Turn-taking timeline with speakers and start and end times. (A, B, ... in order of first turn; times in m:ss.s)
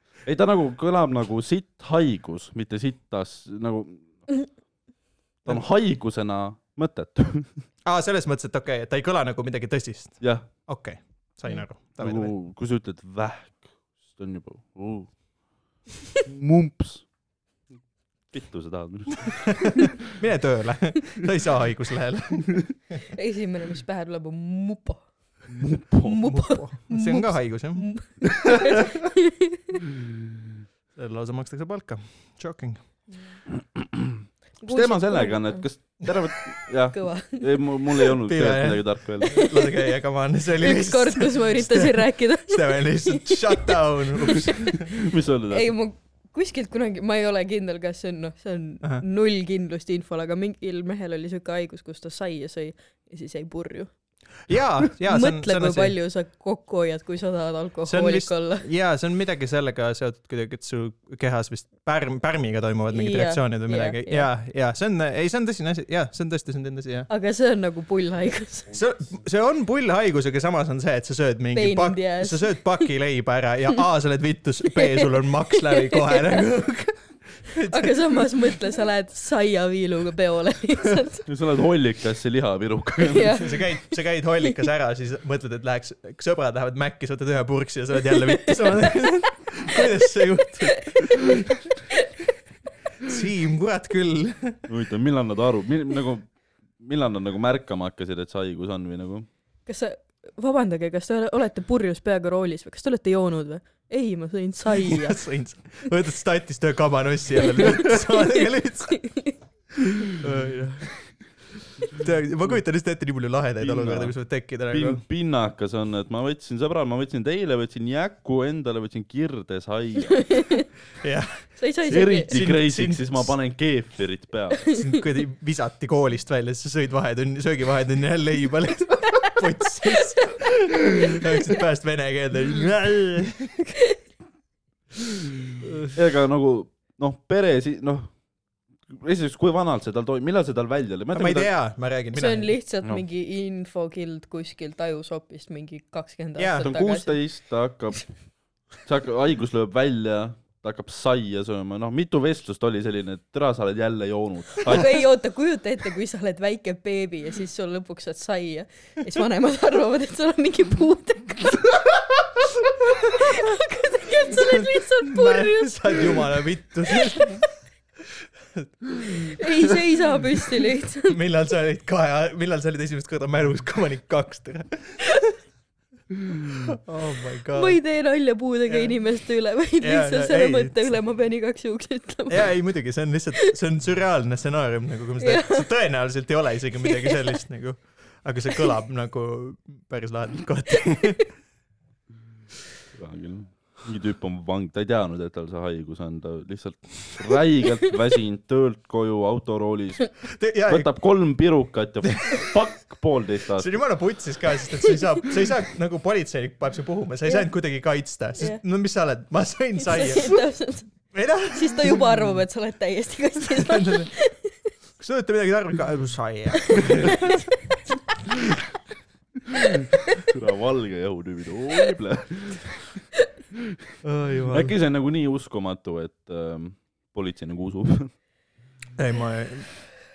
0:00.2-0:04.3 A
0:05.4-0:07.6 A
0:07.8-0:12.3 B
0:10.2-0:10.5 A
0:12.0-0:15.1 A
0:16.2-0:17.0 A
0:18.3-0:19.9 A
0:19.6-0:22.7 B
0:23.1-0:25.1 C
0:25.5-0:26.3 A
0:26.0-0:29.6 C
0:26.2-0:28.1 B
0:30.9-0:32.8 B
0:33.1-0:33.4 C
0:34.6-0:36.1 C
0:34.7-0:39.4 A
0:36.9-0:37.5 C
0:38.2-0:44.9 B
0:39.3-0:39.7 C
0:40.6-0:44.8 C
0:44.9-0:45.7 A
0:45.5-0:53.9 C
0:54.5-0:55.9 B
0:55.1-0:58.7 C
0:57.9-1:07.1 B
1:02.9-1:04.3 C
1:07.1-1:08.7 C
1:08.7-1:18.3 B
1:11.5-1:12.6 C
1:14.7-1:16.4 C
1:17.6-1:21.2 C
1:21.3-1:23.4 A
1:23.0-1:23.8 C
1:23.4-1:31.5 B
1:28.4-1:28.9 C
1:33.0-1:34.6 B
1:34.7-1:39.3 A
1:39.6-1:45.2 C
1:44.8-1:49.0 B
1:47.4-1:49.4 C
1:50.2-1:50.9 B
1:51.9-1:55.0 B
1:53.6-1:54.1 A
1:54.7-2:00.5 A
2:00.1-2:00.6 C
2:01.0-2:01.6 B
2:01.6-2:02.3 C
2:01.9-2:04.7 A
2:02.3-2:03.3 B
2:04.6-2:05.0 C
2:04.7-2:13.5 B
2:11.0-2:11.5 C
2:13.7-2:14.0 C
2:15.6-2:15.9 B
2:15.9-2:18.1 A
2:18.9-2:21.5 A
2:21.1-2:22.5 B
2:22.1-2:27.1 C
2:26.4-2:26.7 B
2:26.6-2:28.2 A
2:28.8-2:35.0 A
2:34.6-2:41.9 C
2:42.6-2:46.3 C
2:44.3-2:47.5 B
2:46.9-2:47.3 C
2:48.5-2:49.4 B
2:49.2-2:51.2 C
2:51.0-2:55.1 B
2:56.7-2:57.8 B
2:57.5-3:02.5 C
2:58.7-2:58.9 B
2:59.8-3:00.9 B
3:02.3-3:11.3 B
3:05.2-3:05.7 C
3:06.8-3:07.4 C
3:12.9-3:23.8 A
3:20.3-3:20.9 B
3:22.0-3:22.3 B
3:23.6-3:30.4 B
3:29.8-3:30.9 C
3:31.1-3:32.2 B
3:31.5-3:34.5 C
3:33.5-3:34.1 B
3:35.0-3:37.4 B
3:36.7-3:37.4 C
3:40.2-3:43.0 A
3:44.0-3:44.7 B
3:44.5-3:48.1 A
3:49.0-3:49.8 B